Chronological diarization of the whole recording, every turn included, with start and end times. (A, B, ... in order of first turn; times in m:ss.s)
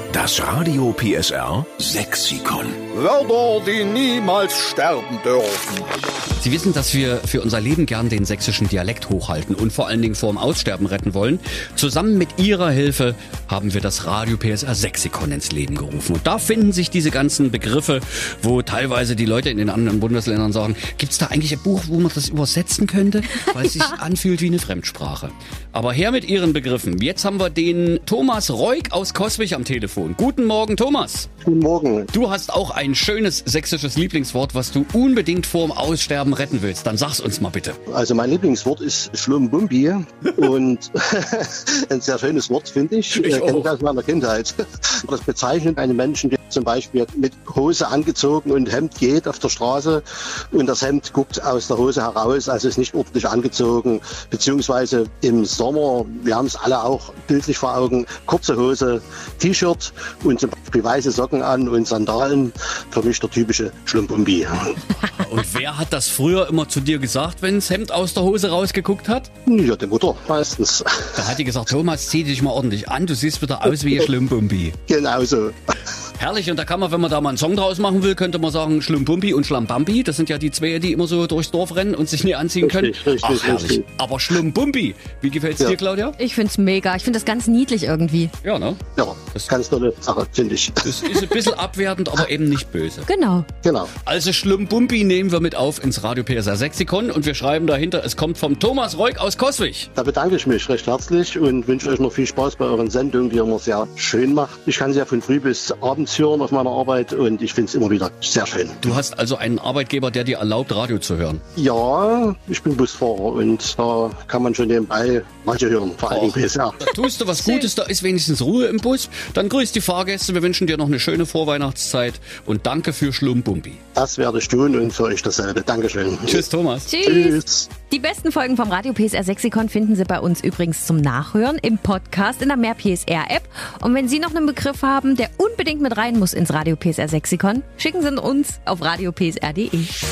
0:00.1-0:02.8 A
0:02.9-0:05.8 B
0:06.4-0:31.3 C
0:31.4-0:32.1 D
0:32.1-0:37.8 C
0:37.9-1:04.8 D
0:43.1-0:43.7 C
1:05.1-1:09.3 C
1:09.4-1:11.2 D
1:11.2-1:14.8 C
1:14.9-1:15.6 D
1:16.2-1:26.2 C
1:22.6-1:23.8 D
1:26.2-1:28.3 E
1:28.4-1:28.8 C
1:29.0-1:31.5 D
1:30.8-1:33.1 C
1:33.1-1:33.5 E
1:33.6-1:33.9 D
1:34.0-1:39.9 C
1:40.0-1:48.9 D
1:48.8-1:51.4 C
1:51.6-1:56.8 D
1:56.1-2:03.8 C
1:57.4-1:57.7 E
2:03.9-2:06.4 D
2:06.3-2:06.9 C
2:06.9-2:19.9 E
2:07.0-2:07.7 D